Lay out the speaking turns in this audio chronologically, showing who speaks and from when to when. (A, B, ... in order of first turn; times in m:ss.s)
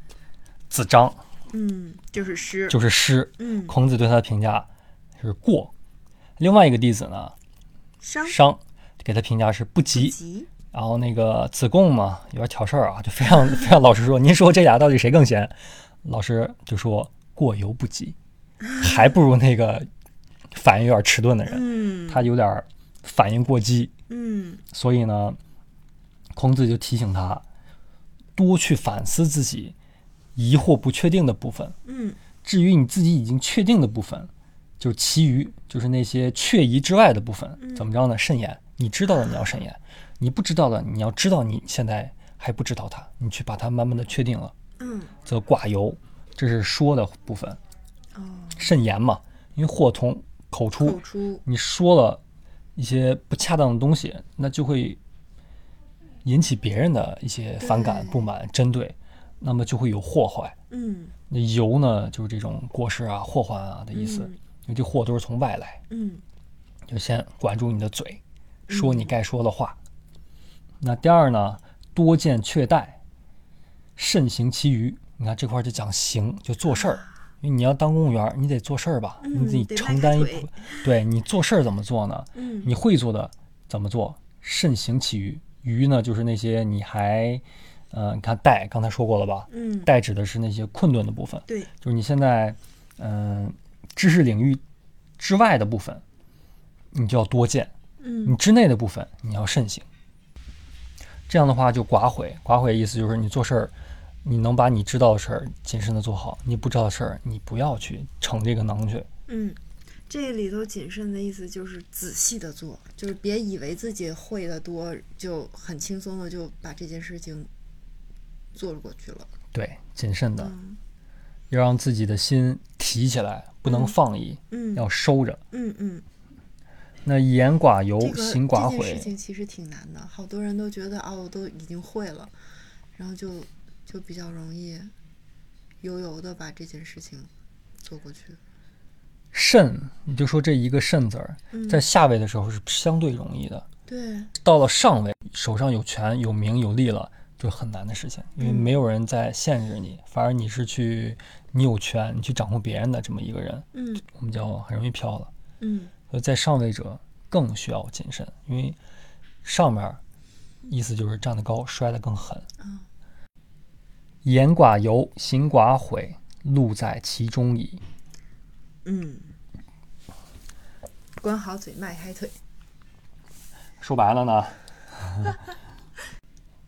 0:00.7-0:01.2 A
0:01.5-0:02.8 B
0:02.7-0:04.7 A
0:03.4-0:03.7 B
0:05.2-0:05.7 A
0:06.4-0:07.3 A
0:08.0-0:08.4 B
0:08.2-0:10.2 A
0:09.9-0:10.5 B
0:10.7-0:18.2 A
0:18.6-0:18.9 B
0:18.8-0:19.9 A
0:20.5-0:23.9 A
0:21.4-0:22.3 B
0:24.1-0:24.6 B
0:24.7-0:25.4 A
0:26.3-0:27.4 A
0:28.4-0:29.7 A
0:30.3-0:31.7 A
0:31.8-0:32.2 B
0:32.4-0:44.5 A
0:37.6-0:37.9 B
0:44.8-0:45.1 B
0:45.2-0:47.6 A
0:48.1-0:48.7 B
0:48.6-0:52.2 A
0:50.8-0:51.4 B
0:52.8-0:55.0 A
0:56.2-1:00.5 A
0:57.6-0:58.3 B
1:00.7-1:01.1 B
1:01.3-1:05.8 A
1:03.9-1:04.4 B
1:05.9-1:06.2 B
1:06.9-1:09.8 A
1:08.7-1:09.1 B
1:10.8-1:13.0 A
1:14.0-1:34.6 A
1:16.8-1:17.1 B
1:19.2-1:20.9 B
1:22.3-1:22.7 B
1:29.5-1:29.9 B
1:35.2-1:36.0 A
1:36.9-1:37.7 A
1:38.0-1:38.4 B
1:38.2-1:39.8 A
1:41.3-1:43.7 A
1:44.2-1:49.1 A
1:49.3-1:57.5 B
1:58.5-1:59.3 B
1:59.5-2:00.5 A
2:00.4-2:00.8 B
2:01.5-2:05.4 A
2:03.6-2:03.9 B
2:04.5-2:04.8 B
2:05.5-2:06.0 B
2:07.0-2:09.1 A
2:08.0-2:12.3 B
2:13.0-2:14.9 B
2:15.8-2:17.3 B
2:17.8-2:18.4 B
2:19.3-2:23.7 A
2:21.5-2:21.8 B
2:23.9-2:24.3 B
2:24.4-2:35.3 A
2:28.4-2:28.7 B
2:33.7-2:34.0 B
2:35.6-2:35.9 B
2:36.1-2:38.8 A
2:39.4-2:40.0 A
2:40.6-2:42.5 A
2:42.6-2:42.8 B
2:44.2-2:47.8 A
2:48.8-2:49.3 B
2:51.2-2:52.4 B
2:53.8-2:55.4 A